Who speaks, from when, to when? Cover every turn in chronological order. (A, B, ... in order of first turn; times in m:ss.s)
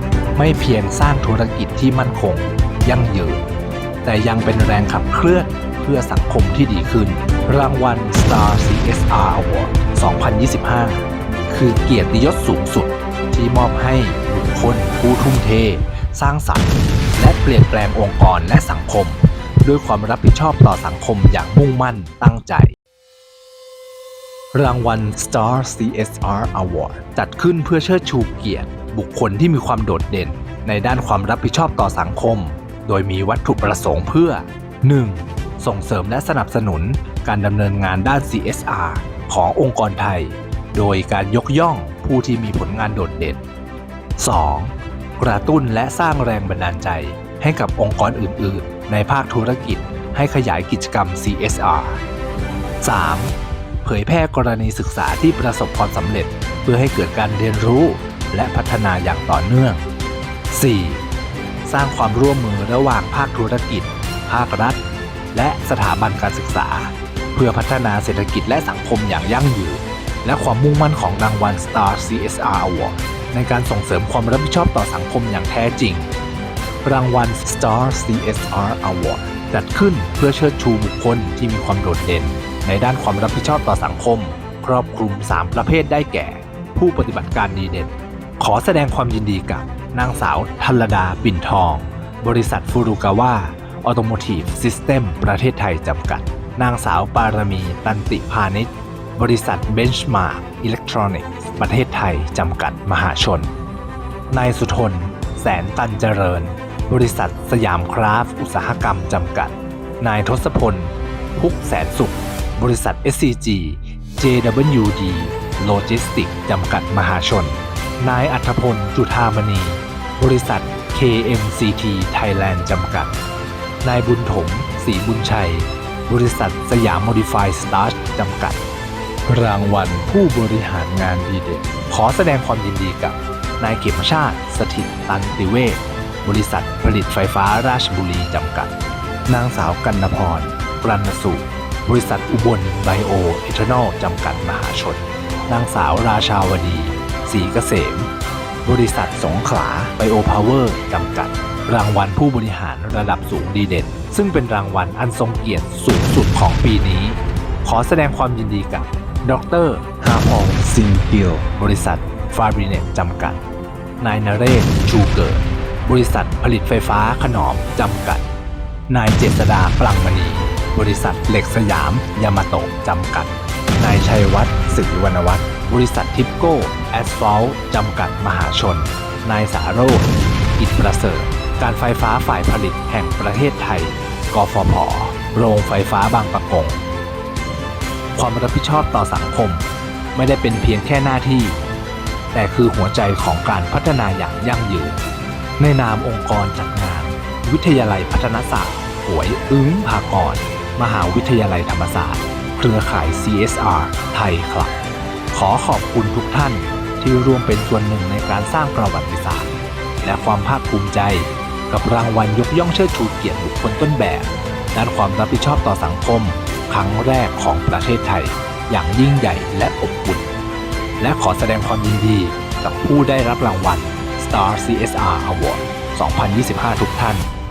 0:00.4-0:03.4 A
0:04.0-0:22.7 A
0:24.5-0:43.4 A
0:44.2-0:52.0 A
0:52.8-0:59.8 A
1:00.5-1:01.0 A
1:01.6-1:04.8 A
1:05.3-1:16.1 A
1:16.8-1:43.5 A
1:44.3-2:03.1 A
2:03.8-2:08.6 A
2:09.3-2:18.7 A
2:19.3-2:28.1 A
2:28.6-2:43.4 A
2:44.0-2:48.2 A
2:48.9-3:06.8 A
3:08.2-3:11.6 A
3:12.3-3:15.0 A
3:15.6-3:24.7 A
3:25.3-3:40.3 A
3:41.0-3:47.3 A